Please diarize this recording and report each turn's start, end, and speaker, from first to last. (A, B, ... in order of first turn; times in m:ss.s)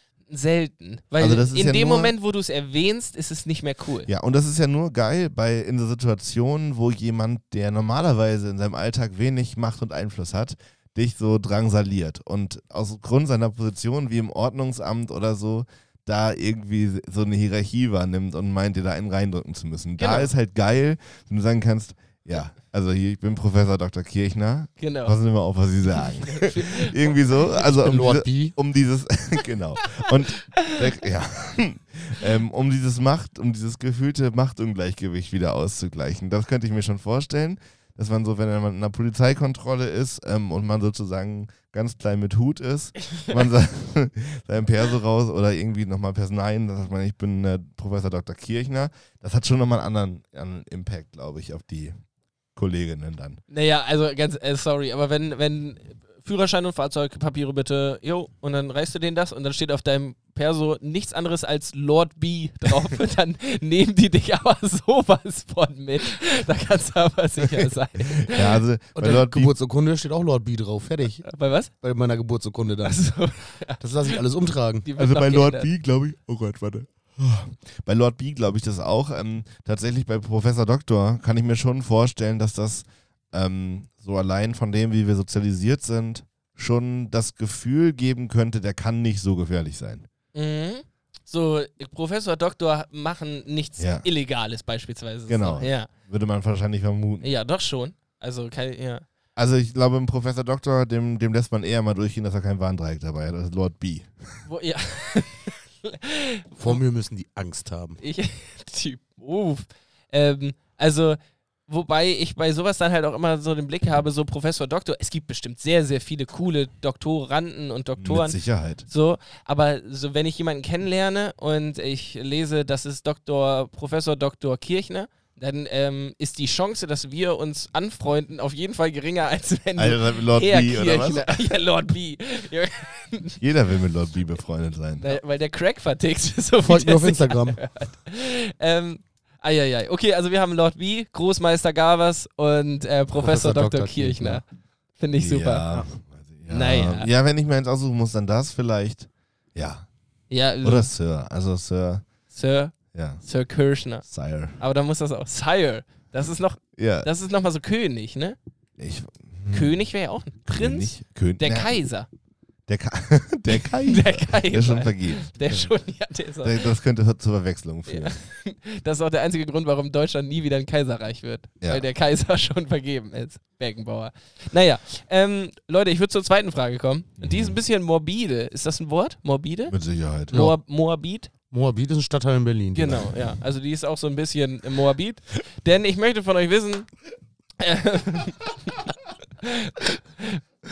0:00.3-0:04.1 A
0:01.2-0:02.1 B
0:04.1-0:52.0 B
0:20.0-0:20.3 A
0:24.8-0:25.2 A
0:26.0-0:27.4 A
0:27.6-0:28.5 C
0:52.6-0:53.4 B
0:53.5-1:08.6 A
1:08.2-1:09.5 B
1:08.9-1:11.2 C
1:11.2-1:11.7 A
1:11.8-1:13.0 C
1:12.8-1:14.2 A
1:13.8-1:14.9 C
1:14.8-1:15.7 A
1:15.0-1:30.1 B
1:30.3-1:35.9 A
1:33.8-1:34.0 B
1:35.3-1:37.3 B
1:37.2-1:39.0 A
1:39.4-1:44.4 B
1:44.5-1:46.8 A
1:46.6-1:48.0 C
1:48.0-2:13.4 A
1:58.0-1:58.9 B
2:09.8-2:11.5 B
2:13.4-2:15.1 B
2:15.0-2:24.4 A
2:16.6-2:17.6 C
2:23.2-2:24.4 C
2:25.0-2:25.6 A
2:25.2-2:29.9 B
2:26.5-2:27.1 A
2:30.3-2:30.9 A
2:30.6-2:32.0 B
2:32.3-2:34.0 A
2:32.9-2:33.2 B
2:34.0-2:34.6 B
2:34.6-2:38.4 A
2:36.8-2:37.1 B
2:38.8-2:39.7 B
2:39.5-2:42.1 A
2:40.4-2:41.7 B
2:42.7-2:45.6 B
2:43.5-2:46.7 A
2:46.4-2:48.1 B
2:47.9-2:59.8 A
2:57.2-2:57.6 B
2:59.7-3:00.4 B
3:00.3-3:01.3 A
3:00.3-3:00.6 C
3:01.5-3:03.1 C
3:02.7-3:06.9 A
3:07.6-3:10.4 A